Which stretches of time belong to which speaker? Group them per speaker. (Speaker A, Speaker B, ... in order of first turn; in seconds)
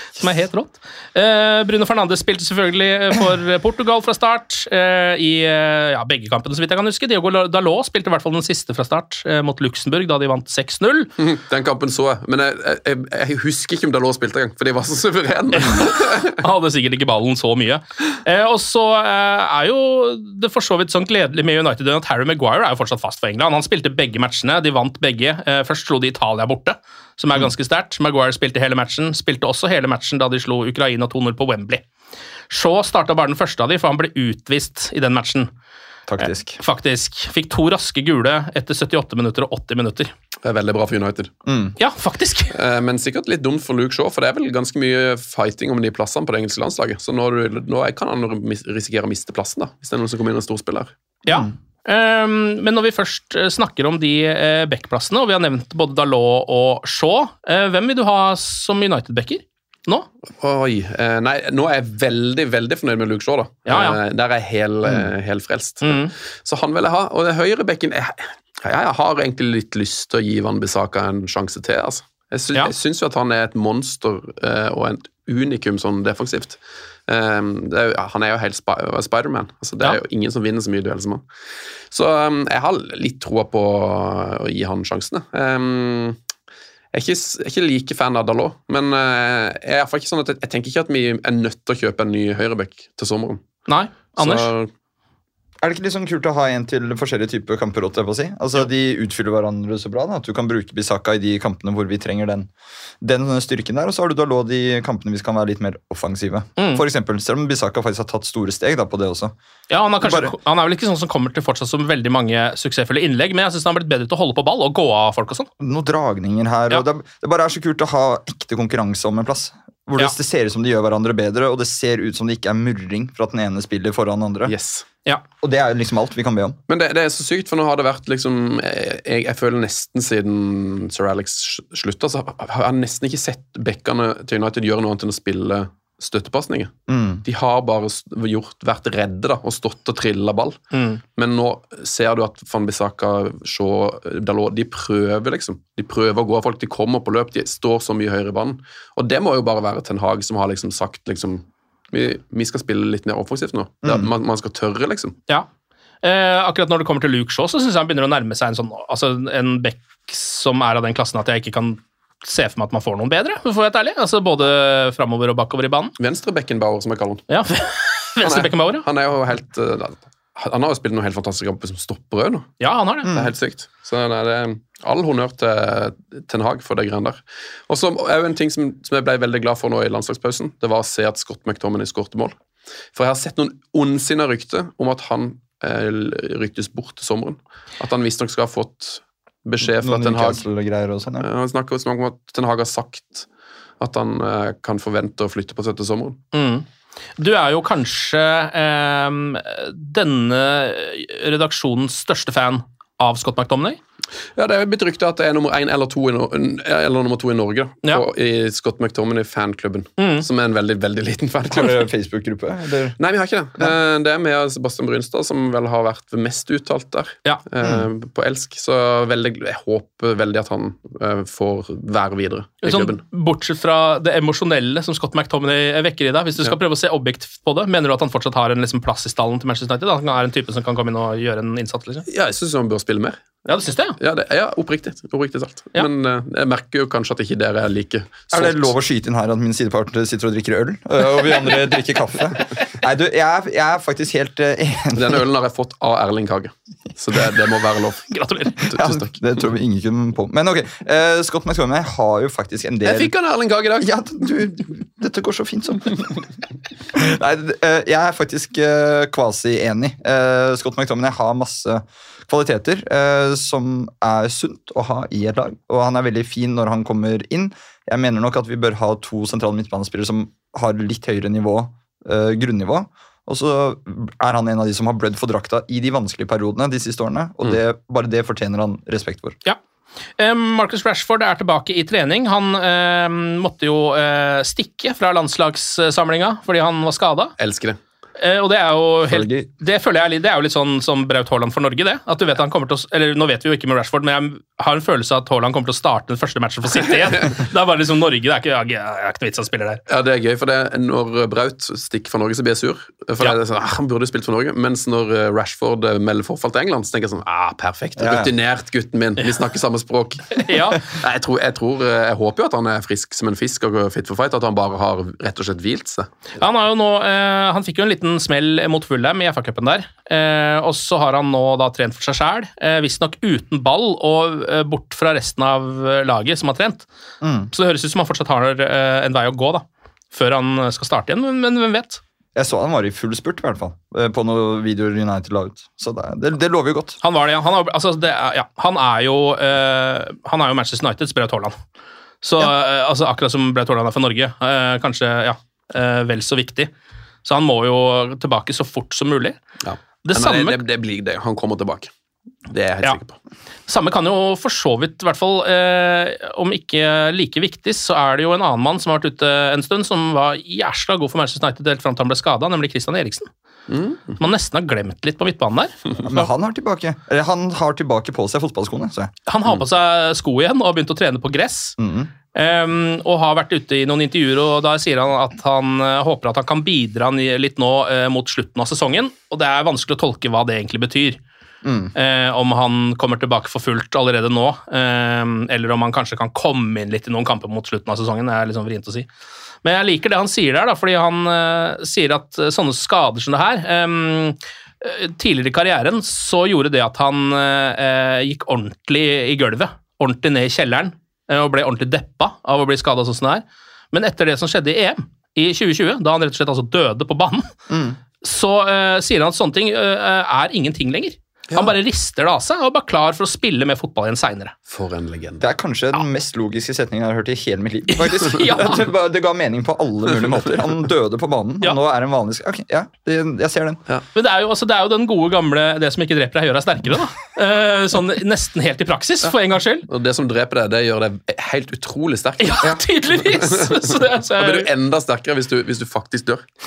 Speaker A: 0.2-11.1, 15.6-31.8, 32.5-35.5, 36.2-40.1, 41.8-42.5, 51.2-60.1, 63.7-64.0, 65.8-66.1, 93.7-94.5, 106.6-106.8, 109.7-115.5, 140.7-141.0, 156.0-165.9, 167.3-168.8, 172.6-173.1, 196.3-196.7, 197.2-203.8, 210.0-210.2, 222.6-232.0, 233.4-233.9, 248.1-248.5, 280.2-287.3, 288.2-299.8, 310.3-310.8, 316.4-326.9, 327.5-332.0, 337.0-341.6, 342.2-346.7, 347.2-349.4, 350.0-350.6, 353.7-363.3, 364.2-366.3, 369.3-371.8, 372.3-381.2, 381.9-389.1, 389.6-407.5, 408.2-414.5, 417.9-418.8, 424.1-429.9, 432.4-434.7
Speaker B: 11.2-16.3, 40.4-41.3, 42.5-50.9, 60.4-81.2, 81.9-86.2, 86.9-93.4, 94.1-94.7, 124.5-124.8, 126.7-140.6, 141.2-155.2, 166.0-167.2, 168.2-182.3, 182.9-190.4, 191.2-193.3, 193.8-196.2, 204.3-211.9, 213.0-223.0, 232.1-233.2, 234.0-238.7, 244.9-249.1, 252.8-254.0, 287.4-287.8, 299.9-316.1, 349.6-351.9, 352.5-353.2, 363.7-364.2, 414.7-415.4, 429.9-432.7, 433.5-436.4
Speaker C: 36.1-36.6, 41.5-41.7, 95.6-102.5, 103.0-109.3, 110.0-110.3, 115.6-124.5, 125.4-126.6, 136.9-137.2, 153.8-154.1, 173.0-173.3, 189.6-191.3, 211.5-213.0, 217.6-217.9, 238.3-245.2, 248.7-253.1, 253.8-256.3, 256.9-279.4, 289.0-289.5, 308.0-308.3, 327.2-327.5, 332.3-337.0, 366.0-369.1, 371.8-372.1, 381.6-381.9, 407.7-408.0, 415.4-423.8